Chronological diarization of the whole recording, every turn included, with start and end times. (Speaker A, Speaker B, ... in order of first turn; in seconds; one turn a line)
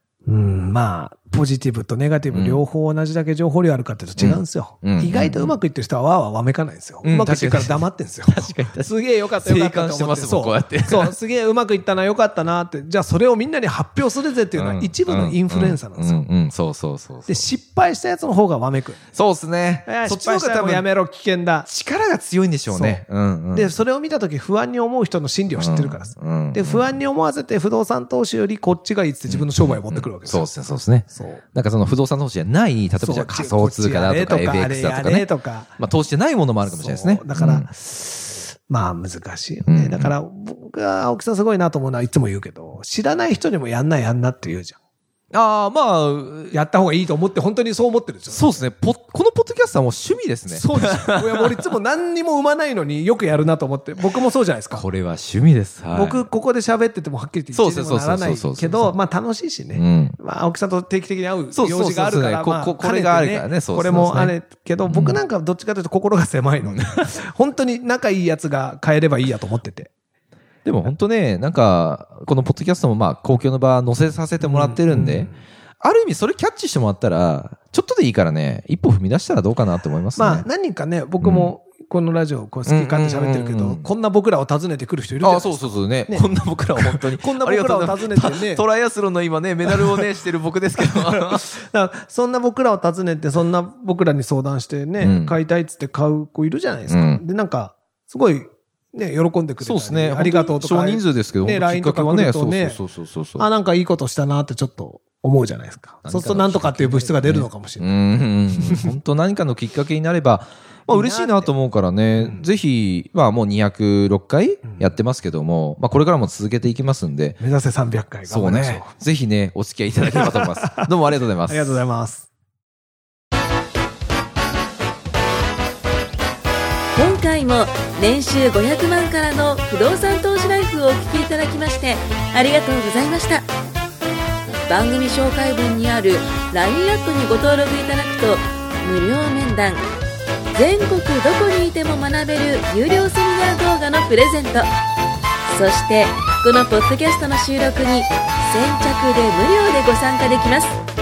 Speaker A: 0.2-16.2
Speaker B: 2.3-2.6
Speaker B: 4.2-5.5
Speaker B: 7.0-11.1
Speaker B: 14.5-17.5
Speaker A: 17.3-19.0
Speaker B: 19.1-20.9
Speaker A: 19.9-21.7
Speaker B: 21.7-23.8
Speaker A: 22.7-30.5
Speaker B: 25.5-27.0
Speaker B: 29.3-37.7
Speaker A: 31.1-31.4
Speaker A: 33.0-35.8
Speaker A: 36.6-44.8
Speaker B: 39.7-40.1
Speaker B: 45.3-46.6
Speaker A: 46.5-48.6
Speaker B: 48.3-51.5
Speaker A: 50.5-54.9
Speaker B: 54.7-56.3
Speaker A: 55.9-69.9
Speaker B: 57.5-59.0
Speaker B: 59.7-60.2
Speaker B: 61.5-65.2
Speaker B: 66.6-67.2
Speaker B: 70.6-75.3
Speaker A: 74.4-75.4
Speaker B: 75.8-80.5
Speaker A: 80.2-86.3
Speaker B: 81.2-81.5
Speaker B: 82.7-83.9
Speaker B: 85.2-91.5
Speaker A: 86.8-88.6
Speaker A: 89.7-90.1
Speaker A: 90.8-102.8
Speaker B: 95.0-95.4
Speaker B: 96.9-97.2
Speaker B: 99.6-103.5
Speaker A: 103.4-108.9
Speaker B: 106.0-117.4
Speaker A: 110.9-111.5
Speaker A: 112.2-112.5
Speaker A: 117.4-118.9
Speaker B: 118.3-121.8
Speaker A: 120.1-120.9
Speaker A: 121.4-122.3
Speaker C: 126.9-133.5
Speaker C: 134.7-139.8
Speaker C: 140.5-144.7
Speaker C: 145.4-150.8